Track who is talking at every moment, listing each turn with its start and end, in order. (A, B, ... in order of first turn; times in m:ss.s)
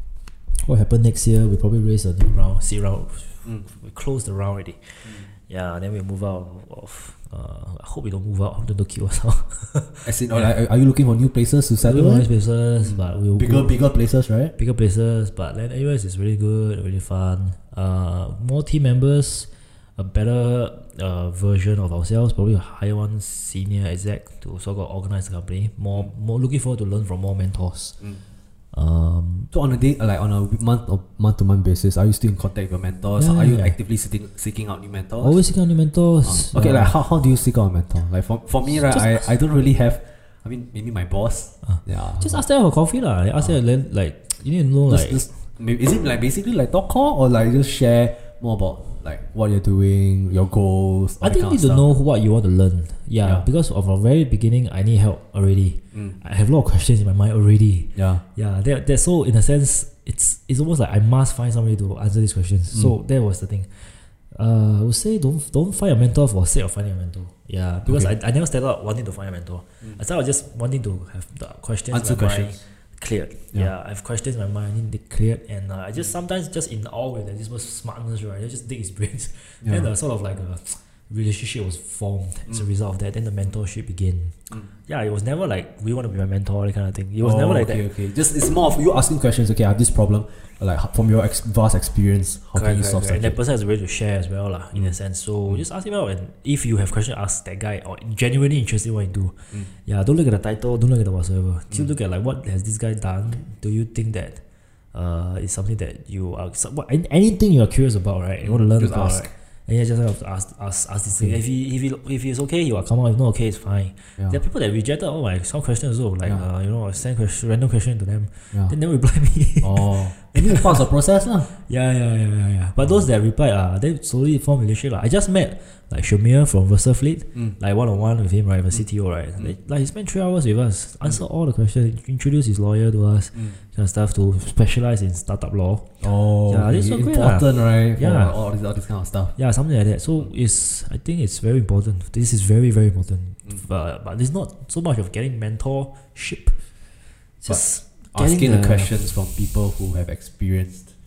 0:00.6-0:10.5 A
0:10.0-0:12.3 B
0:11.8-0:13.8 A
0:12.9-0:14.5 B
0:14.6-0:28.0 A
0:28.7-0:29.5 A
0:29.5-0:35.4 B
0:33.2-0:33.8 A
0:35.2-0:37.0 A
0:36.2-0:42.4 B
0:38.7-0:39.3 A
0:41.7-0:45.3 A
0:44.9-0:51.9 B
0:51.2-1:27.9 A
0:58.0-0:58.2 B
1:07.9-1:08.1 B
1:11.9-1:12.6 B
1:19.6-1:19.9 B
1:27.2-1:33.4 B
1:32.5-1:44.4 A
1:44.9-2:00.9 A
1:48.4-1:49.3 B
1:59.6-2:01.5 B
2:01.5-2:15.9 A
2:02.8-2:03.1 B
2:16.0-2:19.4 B
2:16.5-2:18.4 A
2:19.4-2:26.6 A
2:27.4-2:29.0 A
2:28.1-2:30.9 B